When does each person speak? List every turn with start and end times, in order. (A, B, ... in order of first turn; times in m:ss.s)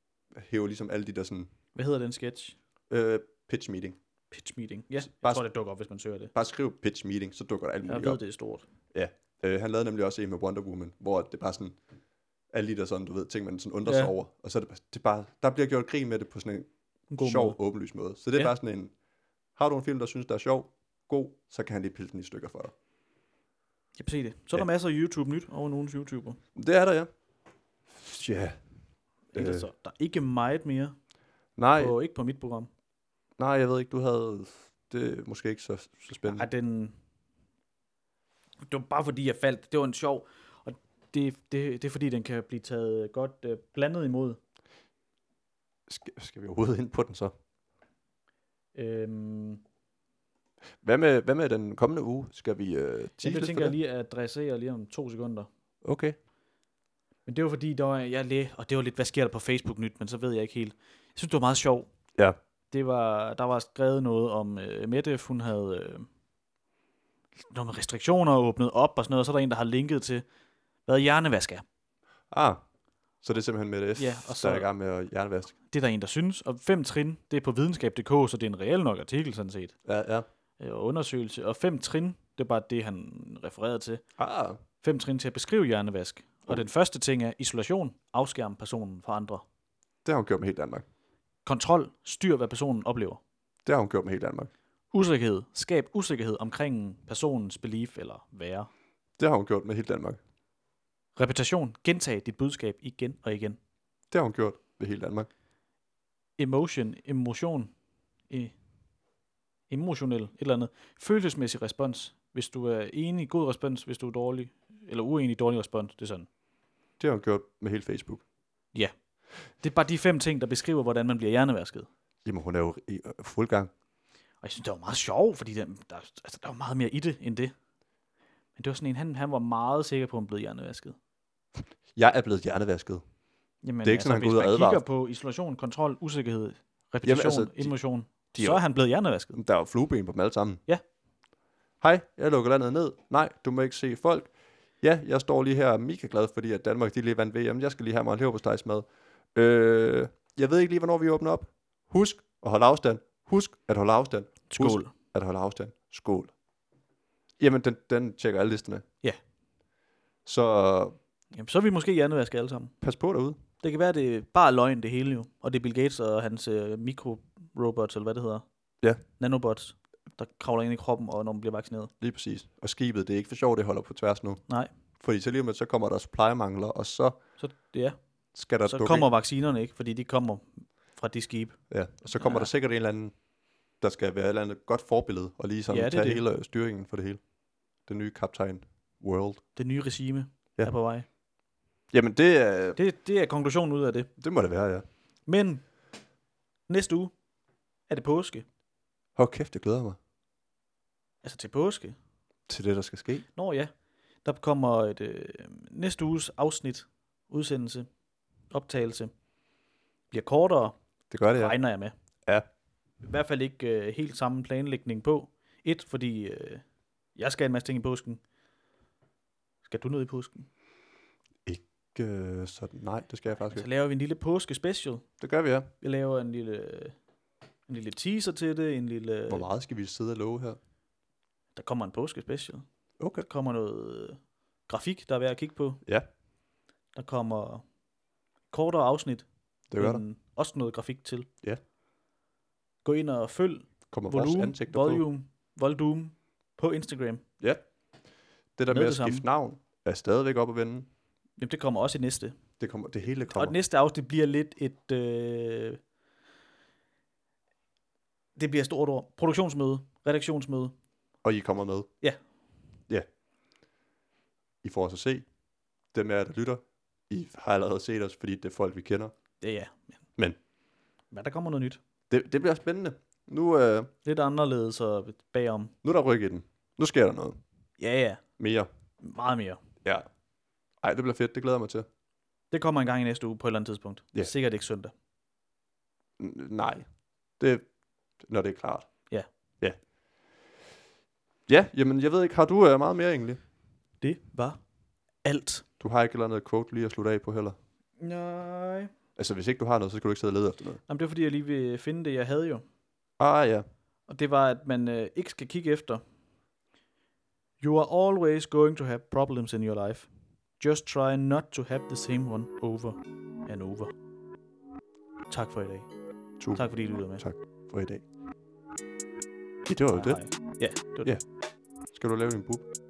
0:00.3-0:01.5 A
0:01.7-0:02.6 B
0:02.9-0:04.0 A
0:04.3-0:06.3 B
0:05.1-0:05.4 A
0:06.3-0:08.2 A
0:07.9-0:08.6 B
0:08.9-0:11.8 A
0:12.5-0:18.9 A
0:13.8-0:14.1 B
0:17.1-0:17.6 B
0:19.6-0:22.7 A
0:24.0-0:26.4 B
0:26.6-0:27.1 A
0:27.9-0:28.6 A
0:29.3-0:31.0 B
0:29.3-0:29.7 A
0:31.6-0:31.9 A
0:31.8-0:32.7 B
0:33.4-0:36.5 A
0:36.2-0:37.0 B
0:38.7-0:44.4 B
0:45.9-0:47.3 A
0:48.7-0:49.6 B
0:50.8-0:53.7 A
0:53.2-0:55.5 B
0:55.8-0:56.2 A
0:57.2-1:01.9 B
1:02.7-1:06.1 B
1:07.5-1:10.2 B
1:10.8-1:11.6 B
1:12.3-1:12.6 A
1:13.2-1:15.5 A
1:14.0-1:14.7 B
1:15.7-1:19.8 B
1:19.8-1:20.2 A
1:20.6-1:24.0 B
1:24.2-1:24.6 A
1:24.8-1:29.4 B
1:30.0-1:30.8 A
1:31.4-1:33.2 B
1:33.6-1:34.5 A
1:34.9-1:38.7 B
1:39.2-1:40.2 A
1:41.2-1:43.6 B
1:44.1-1:45.3 A
1:46.4-1:47.7 B
1:48.3-1:48.5 B
1:49.7-1:56.3 B
1:57.0-1:58.2 A
1:59.5-2:01.9 B
2:02.2-2:03.7 A
2:04.4-2:07.5 B
2:08.6-2:11.0 B
2:11.9-2:13.0 A
2:13.6-2:19.4 B
2:13.8-2:14.8 A
2:17.0-2:17.7 A
2:18.3-2:18.6 A
2:19.3-2:20.6 A
2:21.8-2:36.3 A
2:34.5-2:34.9 B
2:37.4-2:38.8 A
2:40.2-2:41.0 A
2:41.3-2:42.7 B
2:42.8-2:43.4 A
2:43.6-2:48.4 B
2:49.2-2:51.9 B
2:52.0-2:54.4 A
2:55.0-2:57.2 A
2:57.4-2:58.0 B
2:58.3-2:59.1 A
2:58.6-3:01.6 B
3:01.7-3:03.1 A
3:02.2-3:02.5 B
3:03.8-3:07.2 A
3:05.7-3:06.2 B
3:07.8-3:09.4 A
3:09.6-3:11.0 B
3:11.9-3:12.8 A
3:12.8-3:14.1 B
3:14.2-3:14.8 A
3:15.3-3:15.6 B
3:16.7-3:17.1 B
3:17.9-3:18.4 B
3:19.2-3:20.0 A
3:21.2-3:22.0 B
3:22.5-3:23.2 A
3:23.4-3:23.7 B
3:24.2-3:27.9 B
3:28.5-3:29.1 B
3:30.1-3:30.8 B
3:31.1-3:31.6 A
3:31.3-3:31.9 B
3:33.0-3:36.6 B
3:37.2-3:38.2 B
3:39.6-3:40.5 B
3:41.4-3:43.6 A
3:43.4-3:45.0 B
3:45.2-3:45.7 A
3:45.8-3:47.0 B
3:47.7-3:49.5 B
3:49.3-3:50.6 A
3:51.6-3:52.6 B
3:53.0-3:53.3 A
3:53.2-3:55.8 B
3:56.9-3:57.6 B
3:58.5-4:01.3 B
3:59.7-4:00.0 A
4:02.8-4:07.2 B
4:03.9-4:05.0 A
4:08.6-4:10.9 A
4:08.7-4:09.2 B
4:11.4-4:12.4 B
4:12.6-4:13.5 A
4:13.3-4:15.8 B
4:18.4-4:20.7 B
4:21.2-4:21.9 A
4:24.6-4:25.3 A
4:25.9-4:29.1 A
4:29.4-4:29.9 B
4:31.1-4:31.8 B
4:32.1-4:33.9 A
4:34.0-4:35.7 B
4:35.8-4:37.4 A
4:37.8-4:38.2 B
4:38.4-4:38.7 A
4:39.0-4:39.6 B
4:40.8-4:41.8 A
4:42.5-4:44.9 B
4:46.2-4:46.8 A
4:47.4-4:47.6 A
4:48.2-4:48.9 A
4:51.5-4:53.4 A
4:54.0-4:54.6 B
4:55.2-4:55.6 B
4:55.8-4:57.6 A
4:58.0-4:58.9 B
4:59.2-5:00.8 A
5:00.9-5:02.6 B
5:03.2-5:03.6 A
5:04.1-5:06.0 B
5:07.6-5:10.1 B
5:10.6-5:13.9 B
5:15.3-5:15.9 B
5:16.4-5:18.0 A
5:16.5-5:17.2 B
5:19.6-5:20.2 A
5:19.9-5:21.1 B
5:21.9-5:22.6 A